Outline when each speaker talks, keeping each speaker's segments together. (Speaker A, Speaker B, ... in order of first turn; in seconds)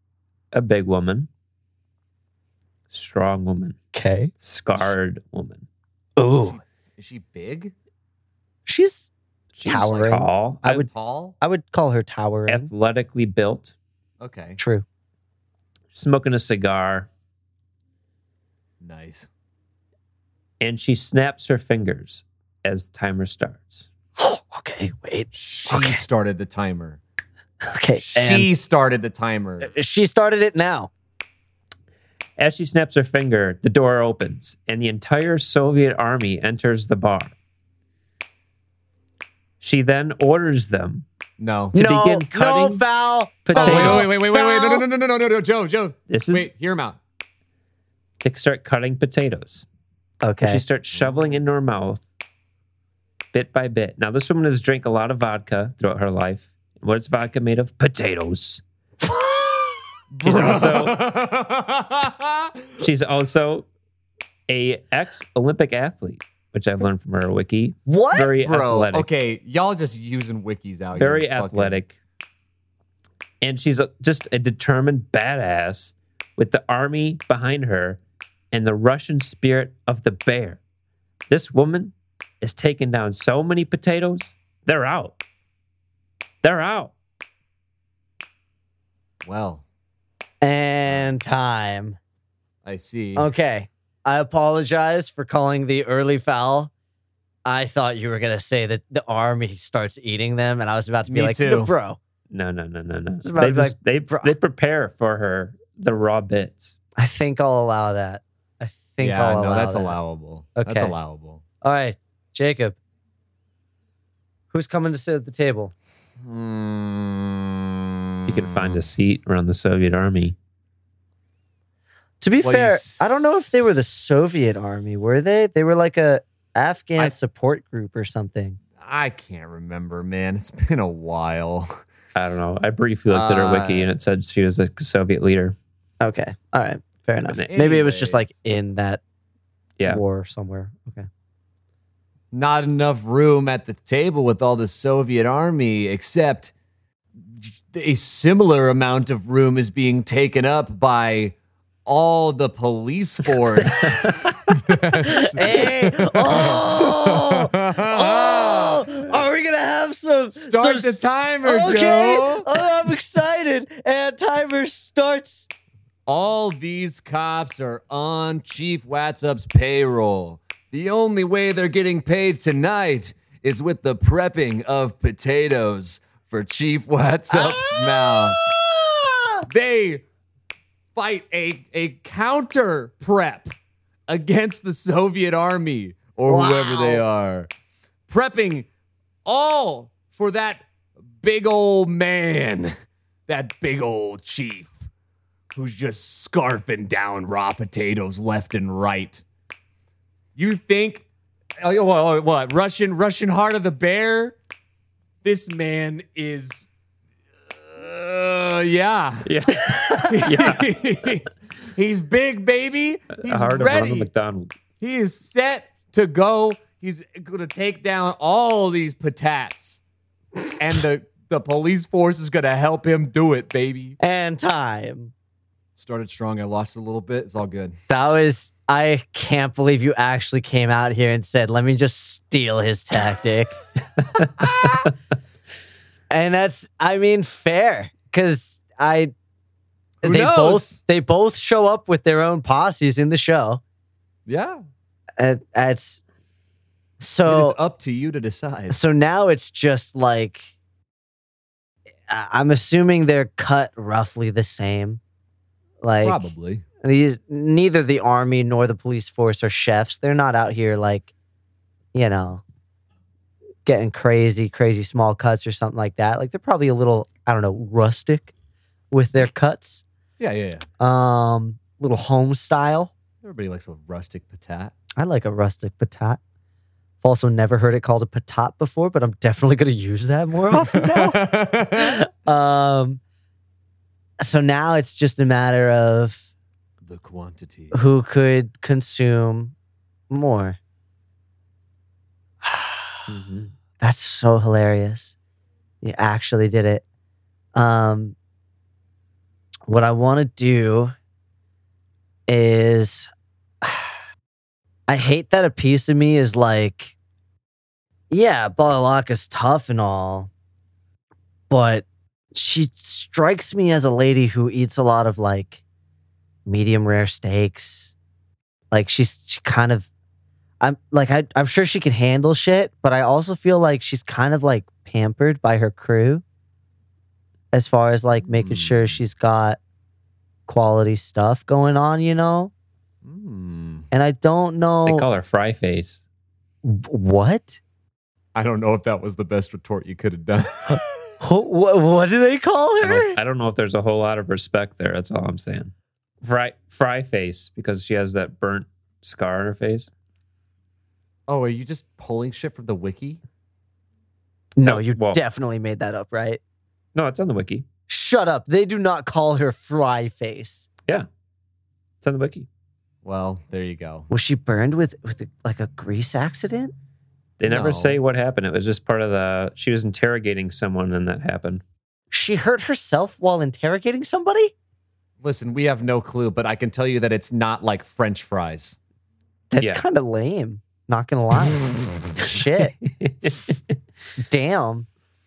Speaker A: 0.5-1.3, 2.9-3.8, 4.4-5.7, 9.6-10.8, 12.5-13.7, 15.9-17.1, 20.6-23.9, 32.4-37.3, 39.6-41.0, 41.8-42.8, 43.5-44.1, 46.1-46.5, 48.2-49.7, 50.4-52.0, 53.3-58.6, 60.2-61.0, 62.8-63.7, 64.5-69.1, 71.0-72.0, 73.4-78.0, 78.5-80.6, 81.3-85.2, 86.4-86.9, 102.3-106.7, 118.3-120.4, 132.2-135.6, 209.2-210.7, 213.2-214.6, 293.1-293.5, 334.9-336.0, 342.8-349.9, 354.6-355.2, 356.9-357.7, 362.0-362.5, 367.4-371.6, 382.9-383.6
Speaker B: 3.9-4.3, 6.2-6.6, 8.7-9.1, 9.7-10.9, 11.4-12.7, 14.6-14.8, 24.2-26.0, 27.6-28.5, 29.6-30.9, 41.7-44.9, 50.2-50.6, 59.0-59.8, 67.9-68.3, 90.4-92.0, 93.2-96.7, 97.5-102.0, 103.2-104.3, 107.0-110.0, 110.6-110.9, 111.6-112.8, 114.5-115.7, 122.2-128.6, 136.0-139.0, 139.9-141.1, 153.6-154.3, 155.0-165.5, 177.3-179.5, 186.3-187.1, 209.8-210.1, 224.0-225.1, 227.9-233.6, 236.1-239.1, 240.0-243.6, 245.2-246.0, 247.0-247.6, 248.7-250.5, 252.1-255.0, 255.8-256.3, 256.8-261.1, 261.9-262.4, 263.6-268.3, 268.9-269.8, 270.8-272.9, 275.0-276.2, 277.0-283.0, 284.2-286.3, 287.7-289.6, 290.1-290.6, 292.4-293.0, 293.8-295.2, 295.8-296.8, 297.6-298.2, 299.7-300.9, 302.3-303.1, 303.6-304.0, 304.9-306.9, 308.1-310.3, 311.5-315.6, 316.5-317.9, 318.7-319.9, 320.6-326.2, 327.5-329.6, 330.5-332.5, 333.9-335.1, 336.6-337.6, 340.7-343.2, 354.6-356.4, 357.9-360.7, 364.1-366.7, 372.1-374.5, 379.5-381.6, 382.1-382.8, 384.3-384.9
Speaker C: 6.4-7.7, 10.6-11.4, 14.2-14.6, 18.8-19.3, 25.3-27.0, 28.0-29.7, 41.4-41.8, 43.5-47.0, 50.9-51.4, 60.1-62.7, 68.4-71.8, 89.2-89.6, 90.9-91.1, 92.7-93.3, 101.1-101.7, 109.0-111.4, 116.2-118.8, 122.4-123.5, 128.8-131.8, 133.1-133.9, 137.5-138.4, 142.3-146.5, 147.2-151.3, 151.9-159.2, 160.3-162.5, 166.1-178.5, 179.5-180.0, 180.9-183.5, 184.1-187.5, 188.1-188.7, 189.2-190.7, 191.2-192.7, 193.3-194.9, 195.5-199.2, 200.4-201.1, 201.6-204.4, 205.2-206.7, 207.5-214.1, 214.8-219.8, 220.6-224.0, 225.8-227.8, 234.4-234.9, 240.0-240.8, 244.3-244.6, 247.2-248.8, 256.0-256.6, 270.2-270.7, 273.2-274.7, 280.5-282.0, 286.8-287.8, 328.3-329.0, 333.0-333.9, 338.4-340.8, 351.3-353.2, 363.0-364.1, 367.5-368.0, 375.2-378.8